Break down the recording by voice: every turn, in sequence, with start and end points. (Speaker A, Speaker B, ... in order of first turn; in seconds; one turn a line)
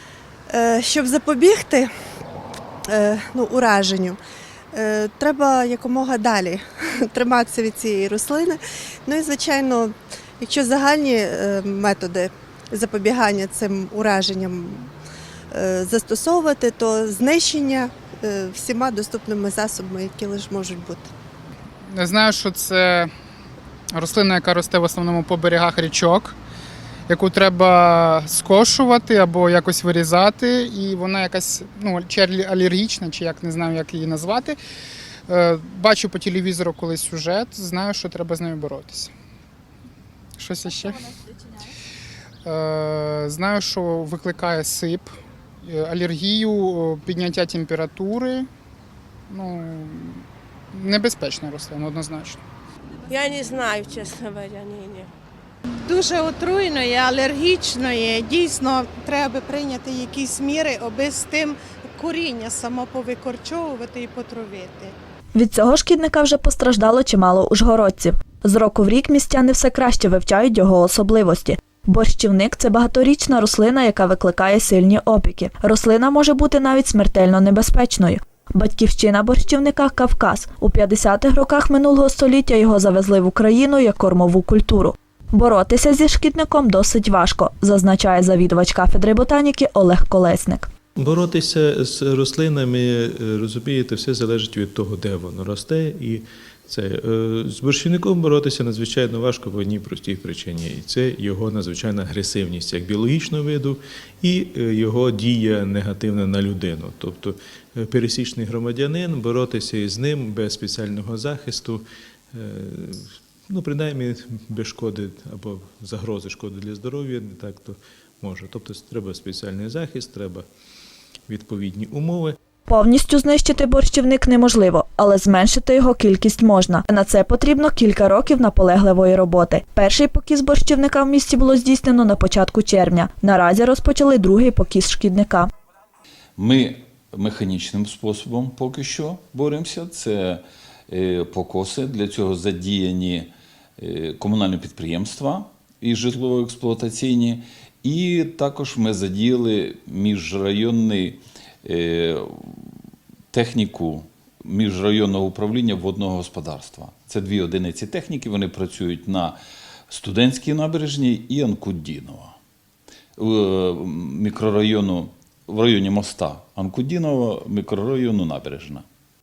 Speaker A: 0.5-1.9
Speaker A: 2.9-4.2
Speaker A: 4.7-14.9
Speaker A: 15.5-21.1
Speaker B: 21.9-23.1
Speaker B: 23.9-26.4
Speaker B: 27.1-34.6
Speaker B: 35.3-39.1
Speaker B: 40.4-41.1
Speaker B: 42.4-45.1
Speaker B: 45.6-48.5
Speaker B: 49.3-52.4
Speaker C: 53.1-55.1
Speaker D: 55.8-64.9
Speaker E: 65.3-90.7
Speaker F: 91.0-120.4
Speaker F: 121.3-122.4
Speaker E: 122.7-135.5
Speaker G: 136.4-152.7
Speaker G: 153.3-159.4
Speaker G: 159.9-162.3
Speaker G: 163.2-168.8